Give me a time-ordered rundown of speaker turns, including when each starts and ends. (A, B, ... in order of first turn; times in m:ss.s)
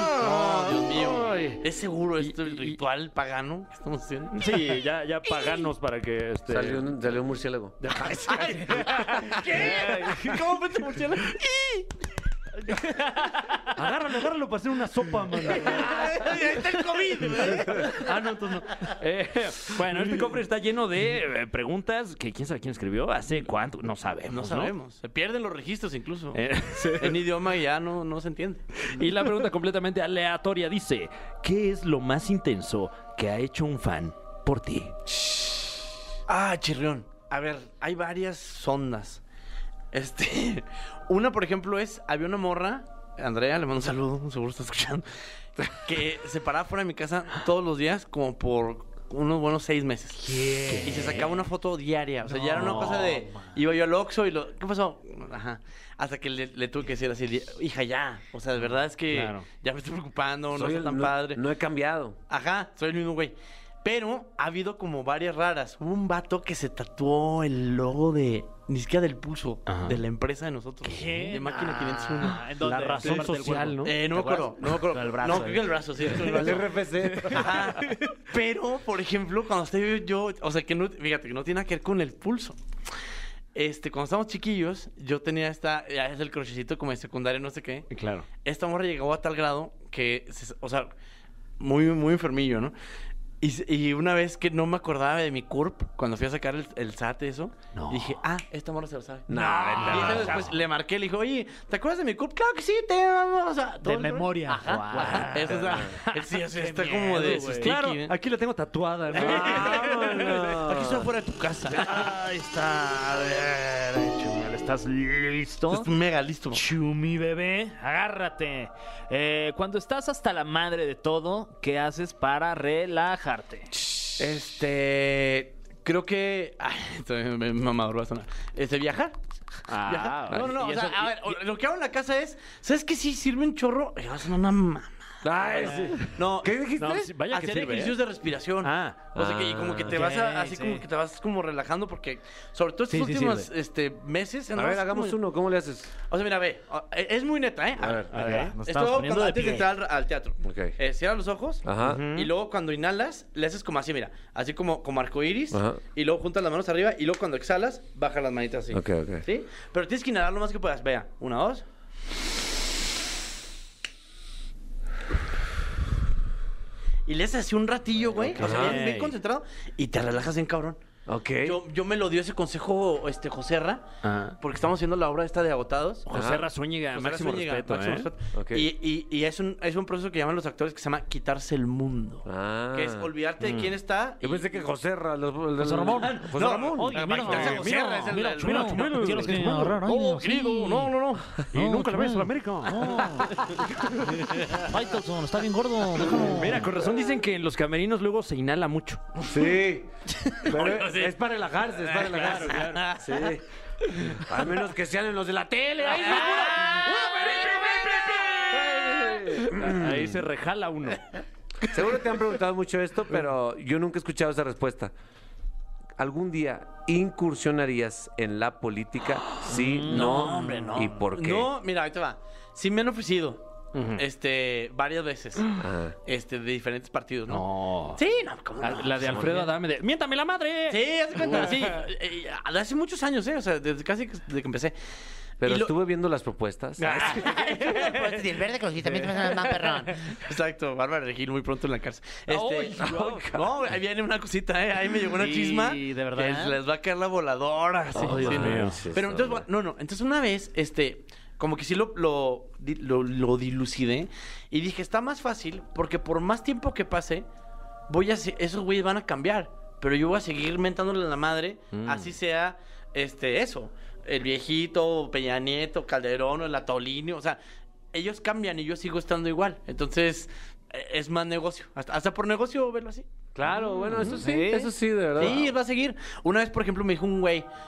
0:00.1-0:04.7 A
0:01.3-0:01.6 B
0:02.2-0:02.8 C
0:04.3-0:06.9 C
0:06.5-0:08.1 B
0:07.8-0:10.4 C
0:08.3-0:11.9 A
0:13.6-0:16.1 C
0:15.5-0:19.0 A
0:17.8-0:18.1 C
0:18.9-0:24.7 C
0:24.3-0:28.6 A
0:26.3-0:27.2 C
0:28.9-0:34.9 C
0:36.3-0:39.2 A
0:39.9-0:45.1 A
0:45.7-1:01.4 A
0:50.2-0:51.3 D
0:52.3-0:53.6 D
0:52.6-0:53.1 C
0:59.1-0:59.4 C
1:00.5-1:02.2 B
1:02.3-1:12.4 A
1:09.7-1:10.0 C
1:10.8-1:16.1 D
1:12.6-1:14.5 C
1:13.8-1:16.7 A
1:16.4-1:17.4 B
1:17.1-1:18.0 D
1:17.3-1:22.6 A
1:23.6-1:30.9 A
1:27.9-1:28.3 C
1:31.6-1:32.8 A
1:33.4-1:48.1 A
1:37.8-1:38.2 C
1:39.3-1:40.5 B
1:39.4-1:40.5 D
1:39.7-1:40.5 C
1:43.8-1:45.8 D
1:44.9-1:45.6 C
1:46.6-1:47.7 D
1:47.0-1:50.4 C
1:49.1-1:51.1 B
1:49.1-1:51.9 A
1:51.8-1:55.9 D
1:55.7-1:56.6 A
1:56.5-2:03.7 D
2:04.2-2:09.2 A
2:09.7-2:11.4 C
2:09.8-2:16.6 A
2:15.2-2:17.1 B
2:16.8-2:18.1 C
2:17.3-2:25.2 A
2:18.6-2:19.9 C
2:19.9-2:20.8 D
2:22.9-2:23.4 D
2:24.6-2:25.9 B
2:26.1-2:41.6 A
2:27.8-2:28.1 B
2:28.1-2:29.7 D
2:28.1-2:28.5 C
2:30.4-2:30.8 B
2:31.6-2:32.1 B
2:31.8-2:32.3 C
2:35.5-2:35.8 B
2:38.7-2:39.3 B
2:47.1-2:50.8 A
2:48.2-2:49.1 C
2:48.4-2:48.8 B
2:51.1-2:51.6 B
2:51.4-2:53.9 A
2:54.0-2:54.4 C
2:54.4-2:56.4 A
2:56.1-2:58.1 C
2:56.1-2:56.4 B
2:56.9-3:04.5 A
2:58.3-2:58.7 B
3:02.2-3:03.1 B
3:03.4-3:03.8 C
3:04.2-3:07.0 B
3:05.6-3:10.9 D
3:06.0-3:11.3 A
3:06.9-3:09.8 C
3:11.4-3:13.3 C
3:11.5-3:13.3 D
3:14.6-3:16.7 D
3:16.1-3:19.0 C
3:19.3-3:19.9 B
3:20.4-3:21.2 A
3:20.4-3:23.4 B
3:21.8-3:23.3 A
3:22.0-3:22.8 C
3:24.1-3:30.2 B
3:25.9-3:27.9 C
3:26.1-3:28.5 A
3:29.5-3:31.0 C
3:31.7-3:34.9 B
3:36.0-3:41.5 B
3:39.5-3:40.7 D
3:39.9-3:45.5 A
3:43.7-3:44.0 C
3:45.6-3:46.0 B
3:46.1-3:49.1 A
3:47.3-3:48.0 C
3:48.6-3:51.8 C
3:49.1-3:49.5 B
3:50.7-3:54.8 A
3:55.4-3:57.2 B
3:55.4-3:55.7 A
3:56.8-3:58.4 C
3:56.8-4:17.2 A
3:58.8-3:59.2 D
3:59.0-3:59.4 C
4:02.3-4:03.4 C
4:02.8-4:03.1 B
4:05.2-4:06.6 D
4:07.9-4:09.5 B
4:08.0-4:08.8 C
4:17.9-4:27.4 A
4:21.7-4:22.2 C
4:27.9-4:33.1 A
4:33.4-4:35.5 B
4:34.0-4:34.7 D
4:35.2-4:37.5 A